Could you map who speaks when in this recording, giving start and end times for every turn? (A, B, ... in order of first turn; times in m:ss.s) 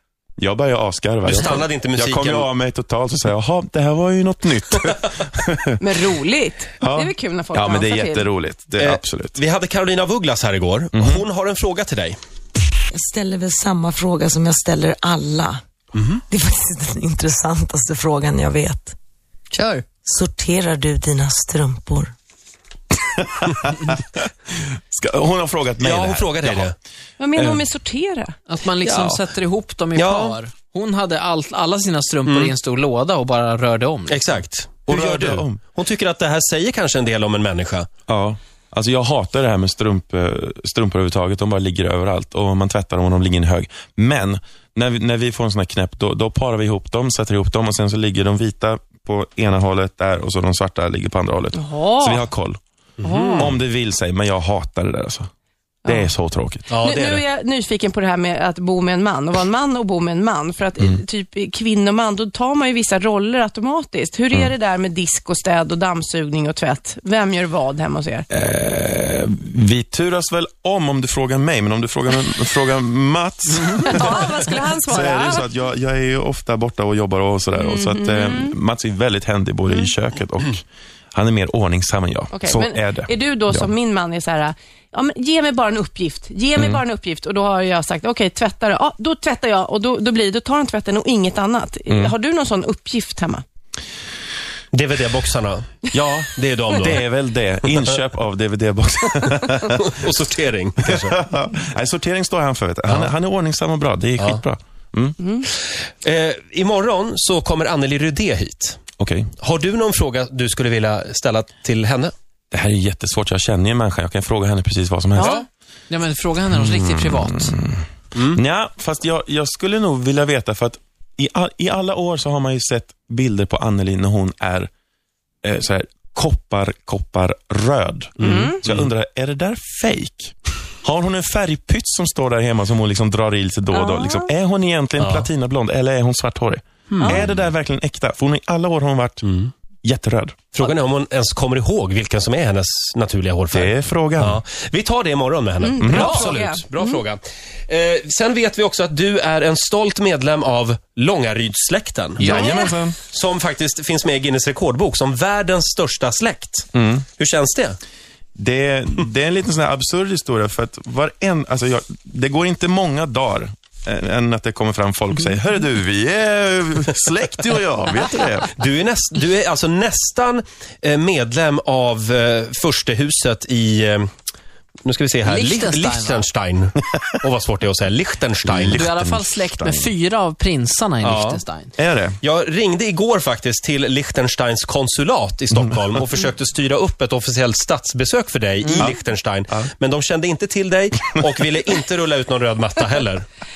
0:00.4-0:05.8 A
0:01.3-0:02.5 B
0:05.8-0:08.3 C
0:06.8-0:09.4 A
0:08.8-0:12.2 B
0:10.9-0:11.2 A
0:12.9-0:15.6 D
0:16.0-0:16.2 B
0:16.3-0:19.0 D
0:19.5-0:19.8 E
0:20.0-0:22.1 D
0:23.2-0:24.2 A
0:24.9-0:26.7 A
0:25.8-0:26.8 B
0:27.2-0:28.4 C
0:27.4-0:27.7 A
0:28.5-0:34.2 E
0:28.9-0:29.2 B
0:30.0-0:30.4 B
0:32.2-0:32.5 B
0:34.1-0:37.9 B
0:34.9-0:35.6 A
0:38.1-0:52.6 A
0:51.5-0:52.2 C
0:53.0-0:53.6 B
0:53.0-0:53.5 C
0:53.4-0:55.3 A
0:55.8-0:56.1 C
0:55.8-0:56.7 A
0:56.7-0:57.2 B
0:56.8-1:08.3 C
1:08.3-1:23.7 A
1:13.8-1:15.4 C
1:17.5-1:18.6 C
1:22.3-1:33.4 C
1:26.6-1:26.8 A
1:34.7-1:35.8 B
1:35.9-1:39.8 A
1:36.4-1:37.1 B
1:39.8-1:41.2 B
1:40.9-1:45.2 A
1:45.2-1:45.5 C
1:45.6-1:48.8 B
1:49.0-1:49.3 A
1:49.4-1:52.1 B
1:52.5-1:55.4 A
1:55.2-1:55.5 B
1:55.9-1:57.5 E
1:56.5-2:04.7 A
1:58.2-1:58.4 B
2:05.4-2:19.2 A
2:08.2-2:08.9 B
2:08.2-2:08.6 C
2:13.7-2:14.3 C
2:15.0-2:15.3 B
2:16.9-2:17.4 B
2:19.2-2:19.5 B
2:19.8-2:20.4 A
2:20.5-2:37.8 B
2:23.5-2:24.4 A
2:25.6-2:27.0 C
2:25.8-2:26.2 A
2:25.9-2:26.2 E
2:32.2-2:33.0 A
2:32.2-2:32.7 C
2:36.7-2:37.1 A
2:38.4-2:48.5 A
2:48.5-2:54.1 B
2:54.8-2:58.8 B
2:55.2-2:56.3 E
2:58.4-2:59.9 A
2:58.7-3:01.7 E
3:01.0-3:01.4 B
3:01.8-3:02.2 A
3:02.2-3:13.3 B
3:08.6-3:08.9 E